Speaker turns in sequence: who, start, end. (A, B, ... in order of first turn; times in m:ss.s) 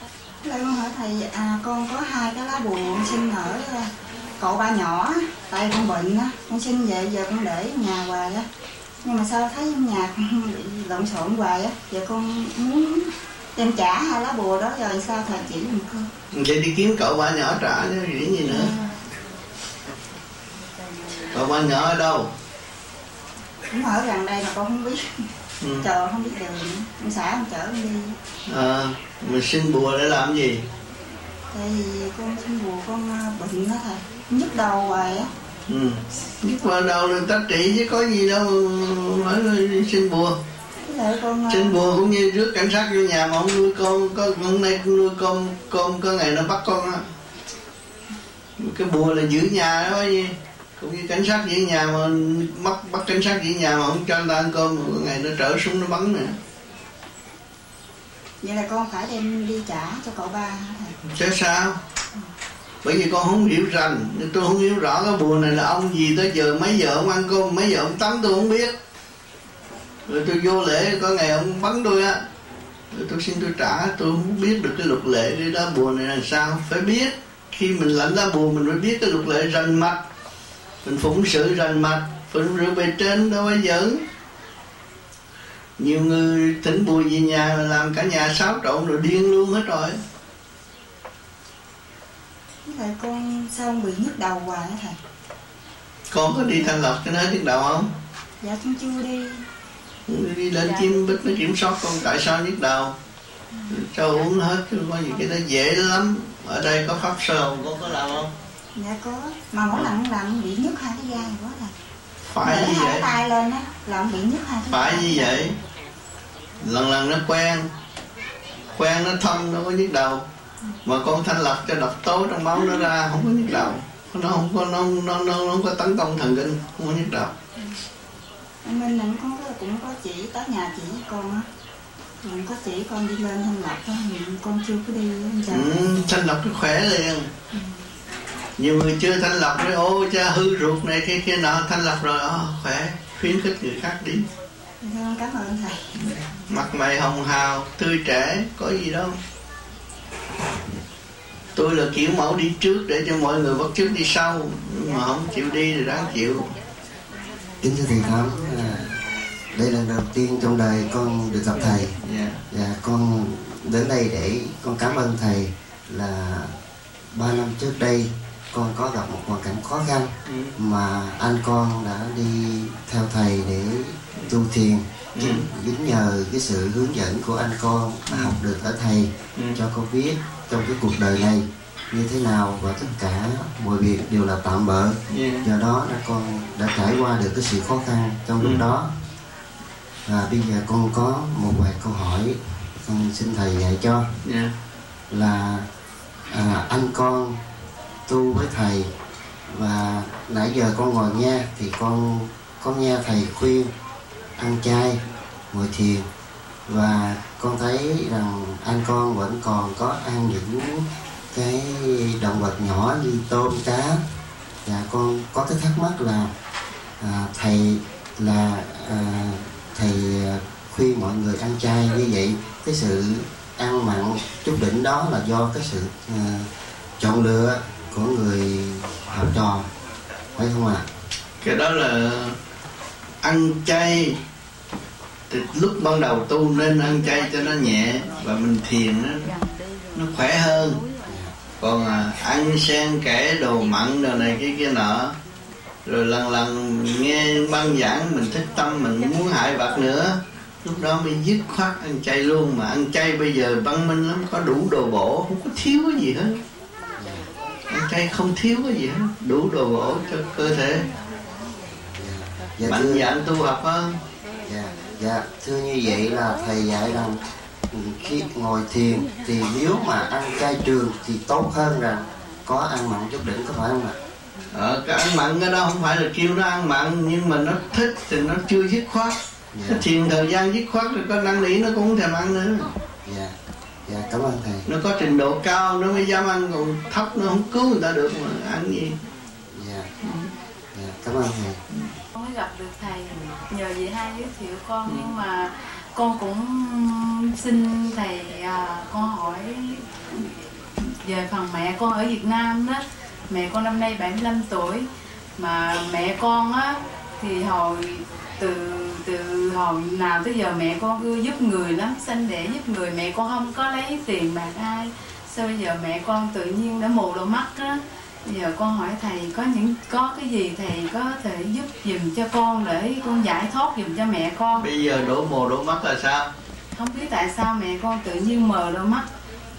0:00.4-0:08.4 A
0:09.0-0:16.1 A
0:16.3-0:18.7 B
0:18.4-0:18.9 A
0:21.3-0:22.3 B
0:23.7-0:25.0 A
0:25.6-0:25.9 B
0:25.8-0:28.2 A
0:28.5-0:30.6 B
0:31.5-0:35.3 A
0:35.7-0:40.4 B
0:40.9-0:41.7 A
0:41.5-0:47.0 B
0:48.6-0:56.4 B
0:58.4-1:00.9 A
1:01.0-1:01.8 B
1:02.8-1:08.8 B
1:10.1-1:12.2 B
1:12.9-1:20.0 B
1:20.8-1:24.0 B
1:25.8-1:30.0 B
1:32.6-1:35.0 A
1:36.1-1:37.9 B
1:38.4-1:39.4 A
1:40.1-1:42.9 B
1:43.7-1:48.3 B
1:48.8-1:51.7 A
1:52.3-1:53.1 B
1:52.4-1:55.4 A
1:54.7-1:55.5 B
1:56.6-1:57.7 B
1:58.8-2:00.2 B
2:00.8-2:07.3 B
2:08.6-2:11.5 A
2:12.2-2:16.1 A
2:15.5-2:17.3 B
2:18.6-2:24.3 B
2:24.8-2:25.8 A
2:26.0-2:29.2 B
2:31.6-2:36.5 B
2:37.6-2:38.9 C
2:39.5-2:41.9 C
2:42.0-2:42.4 B
2:42.5-2:46.5 C
2:47.1-3:08.9 C
2:50.2-2:50.6 B
2:55.2-2:55.5 B
2:58.1-2:58.4 B
3:05.1-3:05.5 B
3:08.4-3:08.7 B
3:10.1-3:14.1 C
3:14.2-3:14.5 B
3:15.1-3:15.6 C
3:16.3-3:17.4 C
3:18.1-3:18.9 C
3:19.5-3:23.7 C
3:24.4-3:25.0 C
3:25.5-3:26.0 C
3:26.7-3:34.0 C
3:34.6-3:36.3 C
3:37.0-3:46.5 C
3:47.0-3:49.6 C
3:50.4-3:50.8 C
3:51.4-3:52.4 B
3:53.2-3:54.2 B
3:55.3-3:59.2 B
3:59.9-4:00.8 B
4:01.0-4:01.3 C
4:01.6-4:05.1 B
4:05.9-4:16.4 B
4:17.0-4:17.2 C
4:17.7-4:20.9 B
4:21.9-4:23.0 C
4:22.6-4:24.0 B
4:24.4-4:27.2 C
4:27.7-4:33.9 C
4:34.5-4:39.2 B
4:39.5-4:39.8 C
4:39.7-4:42.7 B
4:43.0-4:43.3 C
4:43.9-4:44.6 C
4:44.7-4:49.0 B
4:49.5-4:49.9 C
4:50.7-4:51.6 C
4:52.1-5:04.9 D
5:05.4-5:24.6 D
5:24.5-5:26.3 B
5:26.8-5:29.1 D